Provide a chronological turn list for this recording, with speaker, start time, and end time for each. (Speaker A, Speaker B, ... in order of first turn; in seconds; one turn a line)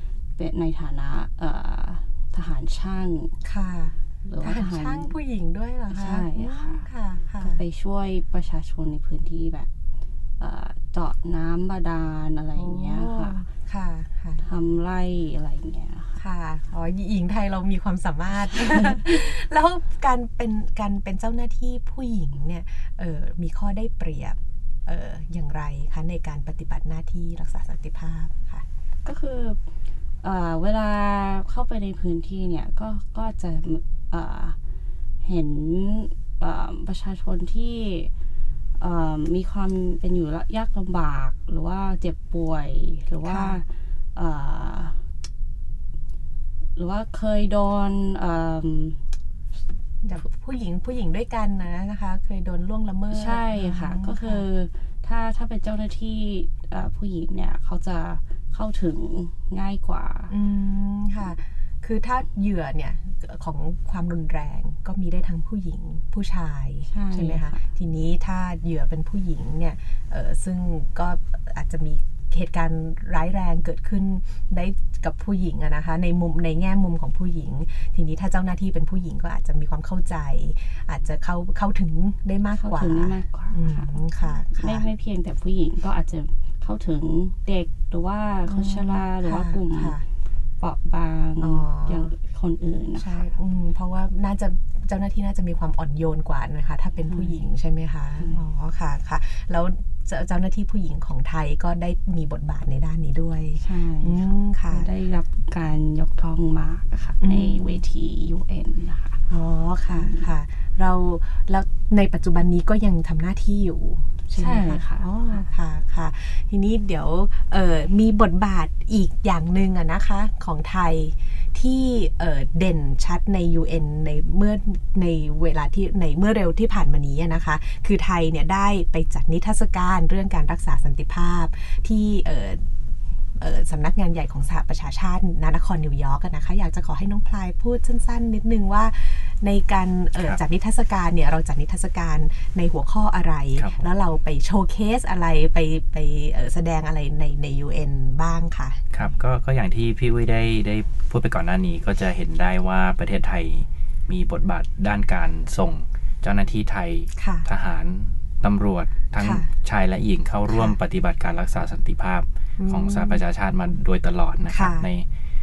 Speaker A: 0.4-3.4
Speaker B: 3.4-7.6
Speaker A: 4.2-5.1
Speaker A: 5.9-6.8
Speaker A: 7.4-9.7
Speaker A: 10.4-13.4
Speaker B: 12.5-14.4
Speaker A: 14.4-16.2
Speaker B: 16.2-28.6
Speaker A: 18.7-19.0
Speaker A: 29.0-29.6
Speaker A: 30.2-34.6
Speaker A: 35.2-38.1
Speaker A: 38.8-45.0
Speaker B: 43.2-43.6
Speaker A: 46.8-49.0
Speaker B: 50.0-54.4
Speaker A: 53.1-60.3
Speaker B: 60.3-84.8
Speaker A: 66.9-67.7
Speaker A: 82.5-90.0
Speaker B: 88.5-90.0
Speaker A: 90.6-93.3
Speaker B: 91.4-92.1
Speaker B: 93.0-104.9
Speaker A: 97.1-97.5
Speaker A: 98.2-98.4
Speaker A: 103.6-109.2
Speaker B: 107.2-107.8
Speaker B: 109.3-132.7
Speaker A: 109.9-110.3
Speaker A: 114.3-115.4
Speaker B: 133.4-148.8
Speaker C: 143.6-143.9
Speaker C: 148.9-165.1
Speaker B: 157.2-157.5
Speaker B: 159.2-159.5
Speaker B: 160.5-160.8
Speaker B: 162.6-163.2
Speaker B: 164.5-164.9